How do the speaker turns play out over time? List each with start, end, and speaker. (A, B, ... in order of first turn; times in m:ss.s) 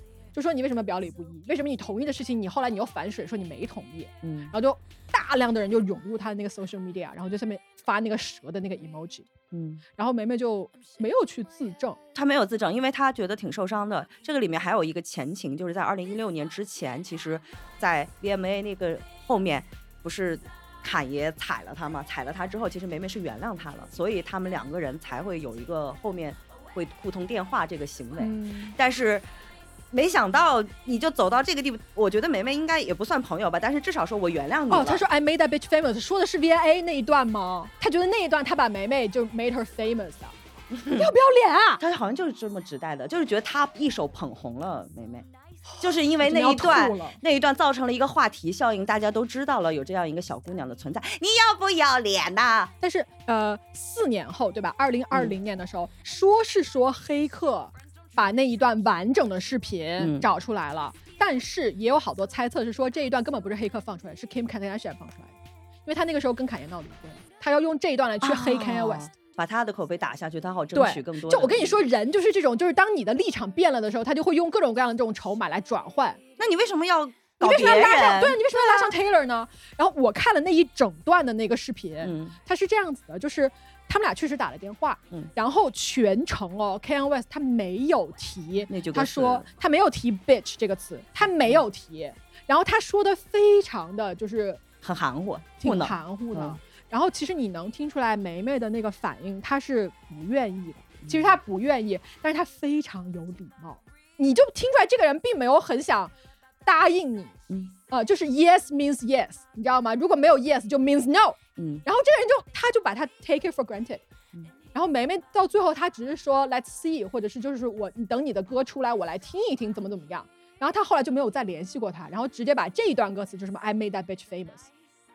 0:00.3-0:09.3 A
0:04.2-0:04.5 B
0:09.5-0:09.8 B
0:10.0-0:12.0 A
0:12.2-0:29.3 B
0:28.2-0:28.8 A
0:29.9-0:35.0 B
0:34.7-0:40.4 A
0:40.7-0:41.1 B
0:40.9-0:41.8 A
0:41.8-0:45.3 B
0:45.7-0:47.2 A
0:45.8-0:52.7 B
0:52.8-1:09.1 A
1:00.0-1:00.3 B
1:08.2-1:11.8 B
1:10.7-1:16.2 A
1:16.4-1:18.9 B
1:17.4-1:34.6 A
1:22.0-1:22.4 B
1:28.7-1:29.5 B
1:31.2-1:31.6 B
1:34.8-1:36.6 B
1:35.6-1:46.1 A
1:41.0-1:41.4 B
1:46.6-1:47.4 A
1:47.9-1:54.0 A
1:51.6-1:51.8 B
1:54.7-2:04.7 A